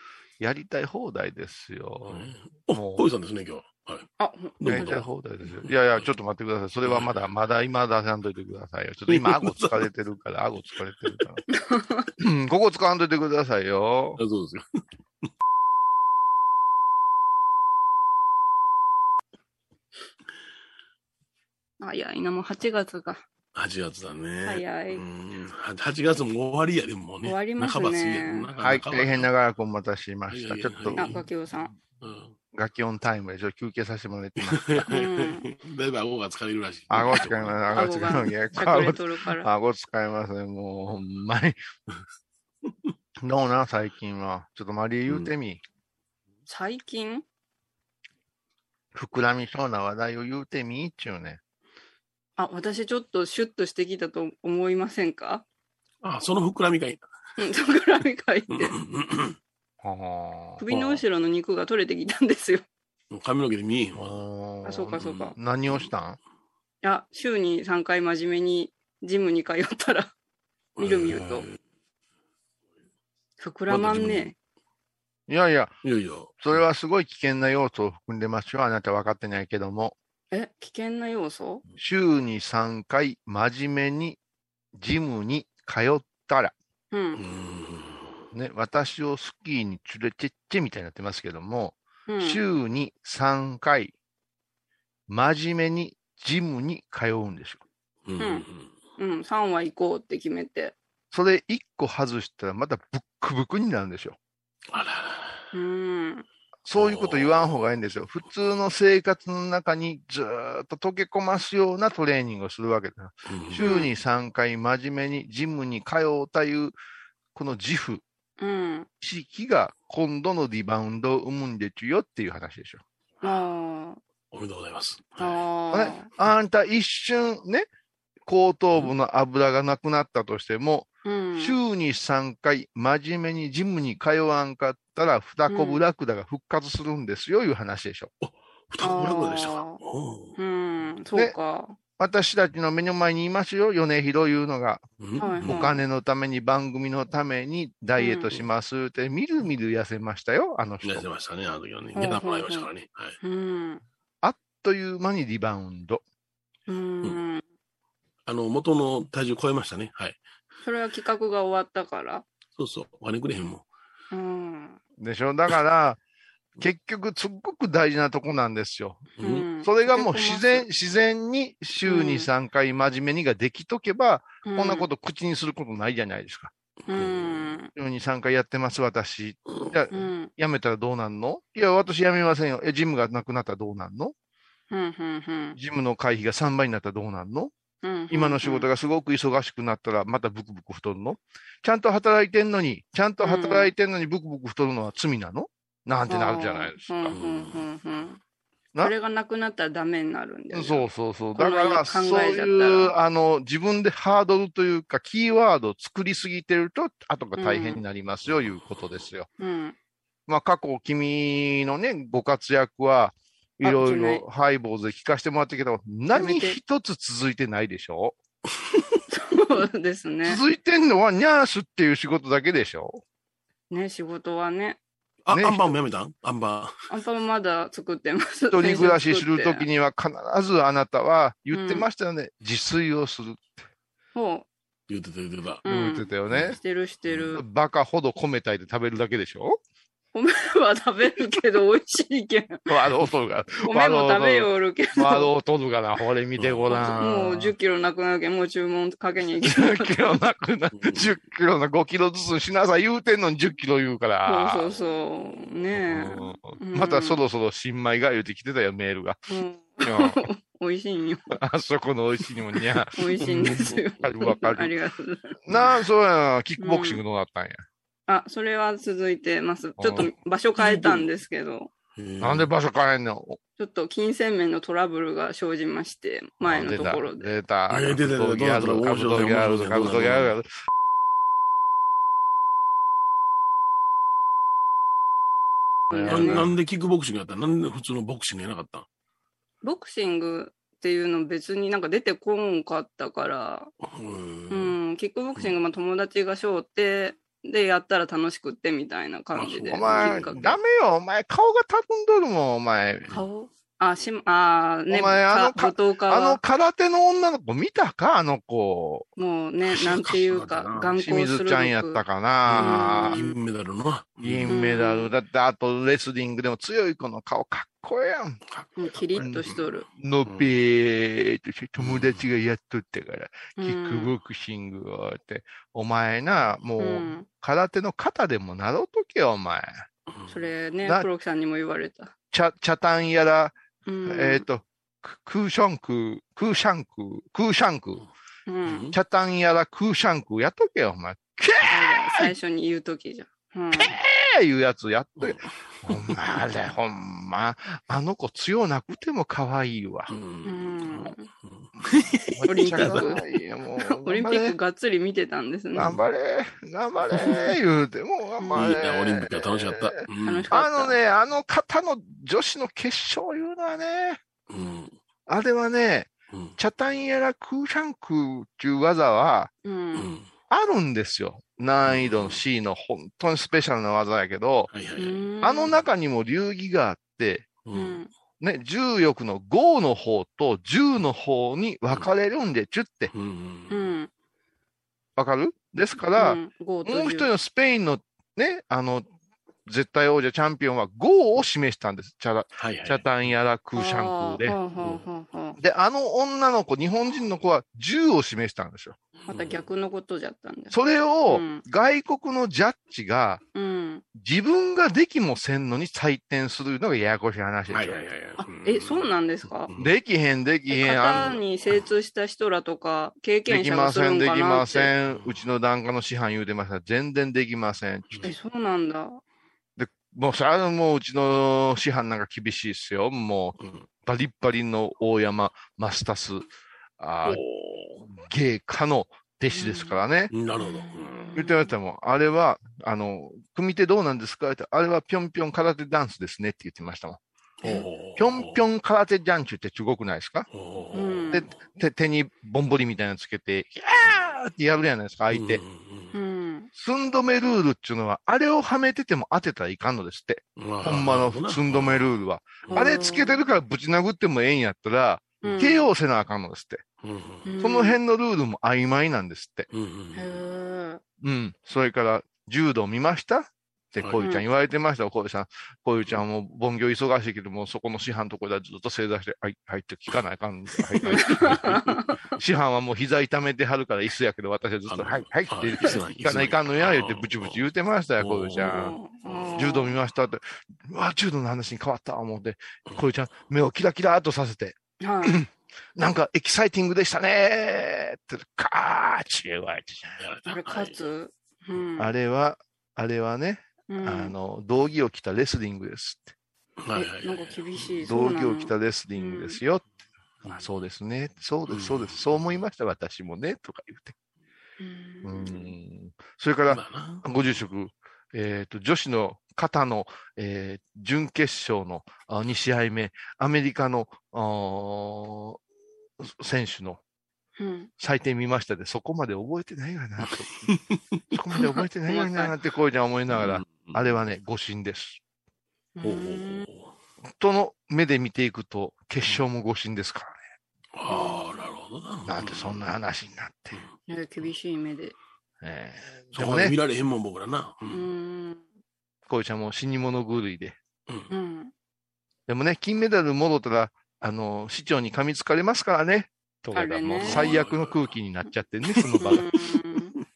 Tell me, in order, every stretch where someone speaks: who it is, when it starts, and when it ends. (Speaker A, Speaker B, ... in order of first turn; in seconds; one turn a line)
Speaker A: 0.4-3.1
Speaker B: 2.0-4.1
Speaker C: 4.2-5.0
Speaker B: 4.6-5.7
Speaker A: 4.7-11.4
Speaker B: 9.1-9.9
Speaker C: 11.5-12.1
Speaker A: 12.2-14.2
Speaker B: 14.2-14.6
Speaker C: 21.8-23.2
Speaker B: 23.5-29.3
Speaker C: 24.4-25.0
Speaker C: 27.2-28.5
Speaker A: 28.6-31.2
Speaker B: 30.3-31.2
Speaker C: 30.9-31.7
Speaker B: 32.0-32.3
Speaker A: 32.5-34.8
Speaker B: 34.4-37.6
Speaker C: 34.9-35.5
Speaker A: 36.9-41.6
Speaker C: 37.7-39.5
Speaker A: 43.2-45.6
Speaker C: 46.5-47.2
Speaker A: 48.9-51.4
Speaker C: 52.4-55.4
Speaker B: 56.0-57.0
Speaker C: 57.4-58.7
Speaker B: 58.5-59.4
Speaker A: 59.8-60.6
Speaker C: 60.6-62.6
Speaker B: 60.7-61.0
Speaker B: 63.1-64.2
Speaker A: 64.0-66.2
Speaker C: 64.6-65.3
Speaker C: 66.8-70.1
Speaker B: 70.8-71.6
Speaker C: 70.8-71.5
Speaker C: 73.4-74.3
Speaker B: 73.7-74.3
Speaker A: 75.3-75.8
Speaker B: 75.8-76.6
Speaker A: 76.4-79.9
Speaker C: 80.3-81.6
Speaker A: 81.8-84.2
Speaker A: 84.7-86.5
Speaker C: 86.9-87.2
Speaker B: 87.2-88.2
Speaker A: 88.3-93.9
Speaker C: 92.1-92.4
Speaker A: 95.1-97.6
Speaker B: 98.0-98.7
Speaker C: 98.2-98.4
Speaker C: 99.0-100.7
Speaker A: 101.1-104.2
Speaker B: 104.7-105.4
Speaker C: 105.5-106.2
Speaker A: 106.6-116.7
Speaker B: 106.8-107.4
Speaker B: 113.3-113.6
Speaker C: 113.6-113.9
Speaker A: 117.3-118.0
Speaker C: 118.4-118.9
Speaker A: 119.0-122.8
Speaker C: 123.2-124.0
Speaker B: 124.3-125.4
Speaker C: 125.2-126.1
Speaker A: 125.7-127.7
Speaker A: 128.2-138.1
Speaker C: 131.0-131.6
Speaker C: 135.5-135.8
Speaker B: 138.2-140.3
Speaker C: 138.8-139.8
Speaker C: 140.3-141.8
Speaker A: 142.0-144.8
Speaker B: 145.0-145.6
Speaker C: 145.2-145.8
Speaker A: 145.4-151.0
Speaker C: 148.0-148.3
Speaker B: 150.8-153.2
Speaker C: 151.9-152.7
Speaker C: 153.2-153.8
Speaker A: 154.2-156.0
Speaker C: 156.7-157.4
Speaker B: 158.2-160.2
Speaker C: 160.6-162.2
Speaker B: 162.6-163.6
Speaker C: 164.1-164.8
Speaker A: 165.0-166.0
Speaker A: 166.6-176.5
Speaker B: 169.2-169.5
Speaker C: 169.2-170.6
Speaker C: 171.8-172.3
Speaker C: 174.4-174.9
Speaker C: 176.9-177.7
Speaker B: 176.9-177.6
Speaker A: 177.8-184.1
Speaker C: 179.9-180.3
Speaker C: 184.7-185.6
Speaker A: 185.5-187.5
Speaker C: 187.8-188.7
Speaker A: 188.1-197.2
Speaker C: 193.2-193.7
Speaker C: 196.1-198.2
Speaker B: 197.1-197.6
Speaker C: 198.8-202.9
Speaker A: 200.5-209.3
Speaker C: 207.4-207.8
Speaker C: 209.4-209.8
Speaker A: 210.3-218.2
Speaker C: 213.6-214.2
Speaker C: 216.1-216.6
Speaker C: 219.1-220.4
Speaker A: 220.2-223.0
Speaker C: 223.7-224.8
Speaker B: 225.2-226.7
Speaker A: 225.3-225.8
Speaker C: 226.9-229.7
Speaker A: 228.5-233.7
Speaker C: 231.5-231.9
Speaker C: 234.1-234.5
Speaker B: 234.9-235.6
Speaker A: 235.6-236.6
Speaker C: 235.6-237.4
Speaker B: 236.3-236.6
Speaker A: 237.3-239.6
Speaker C: 240.1-242.7
Speaker A: 242.7-247.5
Speaker C: 243.6-245.3
Speaker B: 246.4-246.8
Speaker C: 246.7-250.1
Speaker A: 249.4-254.7
Speaker B: 250.7-251.1
Speaker C: 254.2-257.2
Speaker A: 255.8-259.2
Speaker C: 259.3-261.4
Speaker A: 259.8-260.2
Speaker A: 261.3-263.3
Speaker C: 262.9-265.4
Speaker B: 263.2-263.8
Speaker A: 264.0-264.7
Speaker A: 265.5-267.6
Speaker C: 266.6-267.0
Speaker C: 268.1-271.7
Speaker A: 269.8-270.1
Speaker B: 270.6-271.0
Speaker B: 271.9-272.5
Speaker A: 272.2-273.4
Speaker C: 273.6-277.3
Speaker A: 276.4-280.5
Speaker B: 277.7-280.3
Speaker C: 285.9-286.5
Speaker A: 285.9-286.5
Speaker B: 286.1-288.9
Speaker C: 289.6-293.7
Speaker B: 293.8-294.8
Speaker C: 294.5-300.5
Speaker B: 299.4-300.5
Speaker A: 299.6-303.1
Speaker C: 303.1-306.4
Speaker A: 304.9-309.1
Speaker C: 309.2-312.0
Speaker B: 309.7-310.9
Speaker A: 311.0-313.2
Speaker B: 312.4-314.6
Speaker C: 312.6-313.4
Speaker A: 314.2-318.4
Speaker C: 314.5-315.1
Speaker B: 318.5-319.6
Speaker C: 318.8-319.9
Speaker A: 319.2-329.7
Speaker B: 320.2-320.5
Speaker B: 321.8-322.2
Speaker C: 323.6-324.1
Speaker C: 326.8-327.2
Speaker B: 330.1-330.5
Speaker C: 330.3-332.1
Speaker A: 332.3-338.0
Speaker C: 333.9-334.4
Speaker C: 338.5-338.8
Speaker B: 338.7-338.9
Speaker A: 338.9-342.3
Speaker C: 341.7-343.9
Speaker A: 343.7-350.1
Speaker B: 345.2-346.1
Speaker B: 350.1-353.1
Speaker C: 350.4-351.3
Speaker A: 352.3-354.6
Speaker C: 352.5-353.2
Speaker C: 353.8-355.9
Speaker A: 355.8-360.0
Speaker C: 358.4-358.7
Speaker B: 358.5-360.5
Speaker C: 360.2-361.0
Speaker A: 360.5-364.2
Speaker B: 364.5-364.9
Speaker A: 365.3-369.5
Speaker C: 369.6-370.1
Speaker B: 369.9-370.3
Speaker A: 370.5-374.7
Speaker B: 371.9-372.4
Speaker B: 374.7-375.2
Speaker C: 375.0-375.7
Speaker A: 375.4-377.5
Speaker B: 377.6-378.0
Speaker C: 377.7-378.1
Speaker A: 378.4-383.1
Speaker B: 383.1-383.9
Speaker C: 383.7-384.1
Speaker A: 385.2-389.1
Speaker C: 386.1-387.3
Speaker A: 389.6-394.6
Speaker B: 392.6-393.3
Speaker C: 393.8-395.6
Speaker A: 395.6-398.9
Speaker B: 399.3-399.6
Speaker C: 399.3-400.7
Speaker A: 400.7-403.4
Speaker C: 401.3-401.6
Speaker C: 403.5-404.0
Speaker A: 404.1-408.0
Speaker B: 407.7-409.1
Speaker C: 408.4-409.7
Speaker B: 409.7-409.9
Speaker A: 409.8-411.4
Speaker C: 410.7-414.9
Speaker A: 413.5-418.3
Speaker B: 415.1-415.4
Speaker C: 418.2-419.2
Speaker A: 419.8-426.4
Speaker B: 423.6-423.9
Speaker A: 427.0-427.4
Speaker B: 427.2-428.0
Speaker A: 428.1-430.3
Speaker C: 429.5-430.0
Speaker B: 430.3-431.4
Speaker C: 430.6-431.7
Speaker A: 431.3-437.2
Speaker B: 437.6-438.6
Speaker A: 438.1-440.5
Speaker B: 440.5-441.4
Speaker C: 440.9-441.4
Speaker A: 441.3-445.6
Speaker B: 445.3-446.1
Speaker C: 446.1-446.7
Speaker A: 446.8-456.8
Speaker B: 450.6-452.1
Speaker C: 452.7-453.4
Speaker C: 455.4-455.9
Speaker B: 457.0-457.5
Speaker C: 457.4-458.0
Speaker A: 457.6-459.7
Speaker B: 459.7-460.4
Speaker C: 460.1-461.0
Speaker A: 461.2-471.8
Speaker C: 471.0-472.1
Speaker B: 471.4-471.8
Speaker A: 472.4-479.0
Speaker B: 474.9-477.6
Speaker B: 478.2-479.6
Speaker C: 478.6-479.9
Speaker A: 479.5-490.2
Speaker C: 485.0-485.4
Speaker B: 490.2-491.0
Speaker C: 490.5-492.1
Speaker A: 492.0-496.3
Speaker C: 493.9-494.3
Speaker B: 496.8-498.0
Speaker C: 496.9-499.6
Speaker A: 498.0-499.8
Speaker A: 500.4-504.1
Speaker B: 501.7-502.5
Speaker C: 504.8-505.7
Speaker A: 505.2-515.6
Speaker B: 506.7-507.4
Speaker A: 516.2-517.0
Speaker C: 517.6-517.9
Speaker A: 518.0-520.7
Speaker B: 520.2-521.2
Speaker A: 521.3-525.2
Speaker C: 521.6-522.5
Speaker B: 523.3-524.0
Speaker C: 526.0-526.7
Speaker B: 526.0-526.9
Speaker A: 527.4-530.4
Speaker B: 530.9-532.8
Speaker C: 531.1-531.6
Speaker A: 532.2-533.8
Speaker C: 534.1-535.1
Speaker A: 535.6-536.8
Speaker B: 536.3-538.0
Speaker C: 537.9-538.6
Speaker A: 539.3-540.8
Speaker C: 541.3-541.7
Speaker A: 542.5-549.5
Speaker C: 546.7-547.5
Speaker B: 547.2-548.0
Speaker B: 548.9-549.4
Speaker C: 549.2-550.1